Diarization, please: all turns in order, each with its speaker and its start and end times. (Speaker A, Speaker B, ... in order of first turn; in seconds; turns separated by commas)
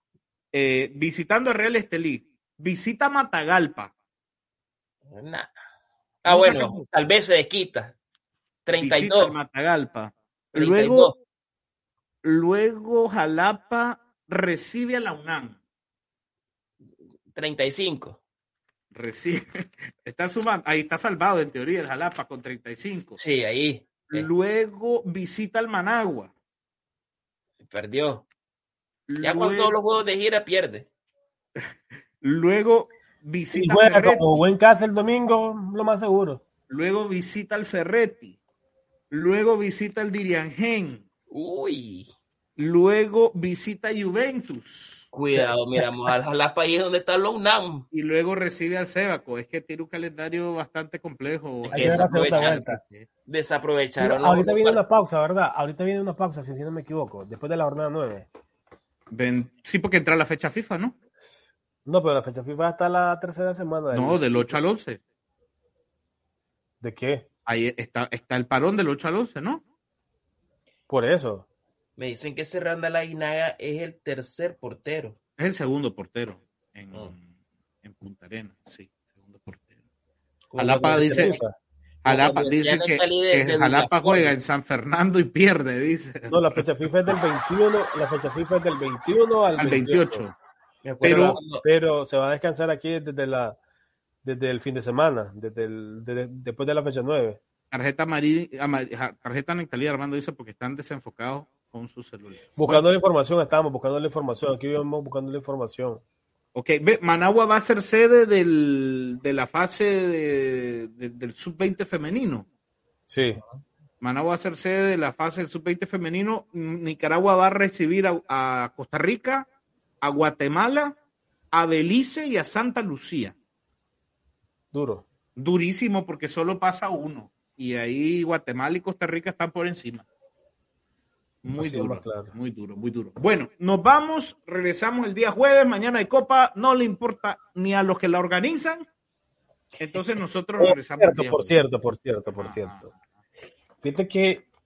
Speaker A: 0.5-3.9, Speaker B: 5.1-5.5, Speaker B: 6.2-8.0, Speaker A: 6.2-6.9, Speaker B: 8.7-9.3, Speaker A: 8.8-11.1, Speaker B: 10.5-11.1, Speaker A: 12.2-15.6, Speaker B: 17.3-18.2, Speaker A: 18.9-23.2, Speaker B: 23.2-24.3, Speaker A: 24.1-26.3, Speaker B: 27.6-28.2, Speaker A: 29.1-29.7, Speaker B: 29.2-30.9, Speaker A: 32.2-34.3, Speaker C: 33.5-36.4, Speaker A: 36.7-38.4, Speaker A: 39.1-41.0, Speaker B: 41.3-42.1, Speaker A: 42.6-45.1, Speaker B: 45.1-47.8, Speaker C: 45.3-46.1, Speaker A: 47.9-53.1, Speaker B: 51.6-52.6, Speaker C: 51.7-52.8, Speaker B: 53.3-54.8, Speaker C: 54.0-58.3, Speaker A: 59.1-60.9, Speaker C: 61.9-64.6, Speaker A: 63.9-65.0, Speaker C: 66.8-67.2, Speaker A: 67.5-69.6, Speaker C: 70.9-71.5, Speaker B: 72.0-75.2, Speaker A: 75.4-77.3, Speaker A: 77.8-79.7, Speaker B: 80.5-81.4, Speaker A: 80.6-81.4, Speaker C: 80.8-81.5, Speaker A: 82.0-86.6, Speaker B: 82.0-84.3, Speaker C: 86.3-90.2, Speaker A: 89.6-90.3, Speaker B: 90.8-91.6, Speaker A: 91.0-91.4, Speaker C: 91.4-93.6, Speaker C: 94.2-97.4, Speaker A: 97.7-102.8, Speaker C: 102.5-106.0, Speaker A: 106.5-112.5, Speaker C: 113.1-113.4, Speaker A: 114.0-119.5, Speaker A: 120.0-121.0, Speaker A: 121.5-123.3, Speaker C: 124.7-125.0, Speaker A: 125.3-130.1, Speaker A: 131.4-138.8, Speaker C: 131.6-132.3, Speaker A: 139.8-141.6, Speaker C: 140.6-142.8, Speaker A: 142.3-142.9, Speaker C: 143.8-144.4